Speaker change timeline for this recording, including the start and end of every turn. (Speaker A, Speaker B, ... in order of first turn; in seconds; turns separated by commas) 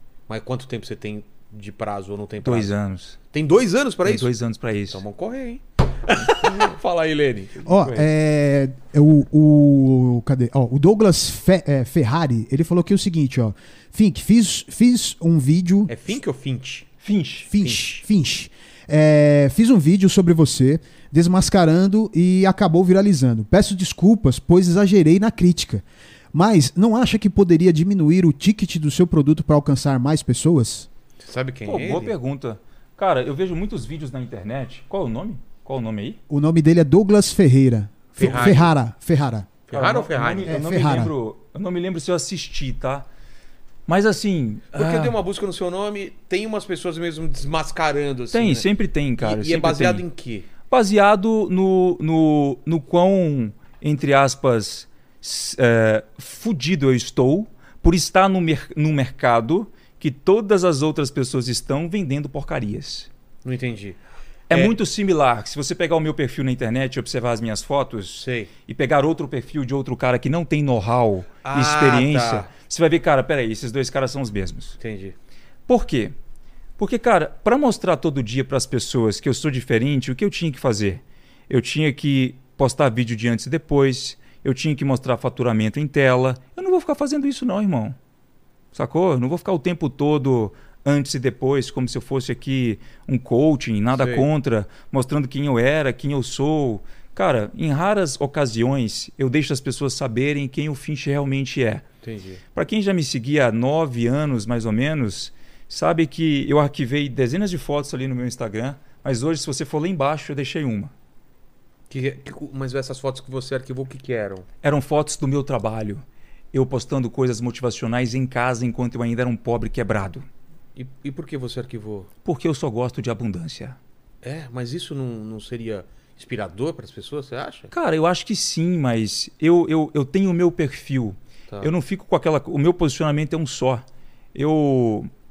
Speaker A: 0.3-2.7, Speaker B: 2.4-3.2, Speaker A: 3.3-4.3, Speaker B: 4.0-5.0, Speaker A: 4.9-8.1, Speaker C: 7.7-15.9, Speaker A: 15.9-16.9, Speaker B: 17.0-17.5, Speaker C: 17.5-30.9, Speaker A: 17.6-18.0, Speaker A: 31.2-32.1, Speaker B: 31.6-36.2, Speaker C: 36.3-39.5, Speaker A: 38.1-38.7, Speaker B: 38.2-38.5, Speaker A: 39.7-40.6, Speaker B: 39.7-43.1, Speaker C: 40.5-41.1, Speaker B: 43.9-45.1, Speaker A: 44.7-48.7, Speaker B: 48.3-50.0, Speaker A: 49.2-50.5, Speaker B: 50.7-63.1, Speaker A: 63.5-64.0, Speaker B: 64.5-74.8, Speaker A: 64.5-64.8, Speaker A: 68.2-68.5, Speaker A: 71.4-72.5, Speaker A: 74.8-75.2, Speaker B: 75.7-76.1, Speaker B: 76.8-88.0, Speaker B: 88.7-101.8, Speaker A: 93.9-94.3, Speaker A: 102.0-102.4, Speaker B: 102.5-110.9, Speaker A: 111.9-114.5, Speaker B: 114.6-120.2, Speaker A: 120.8-122.1, Speaker B: 122.2-123.8, Speaker A: 124.2-127.7, Speaker B: 127.7-135.1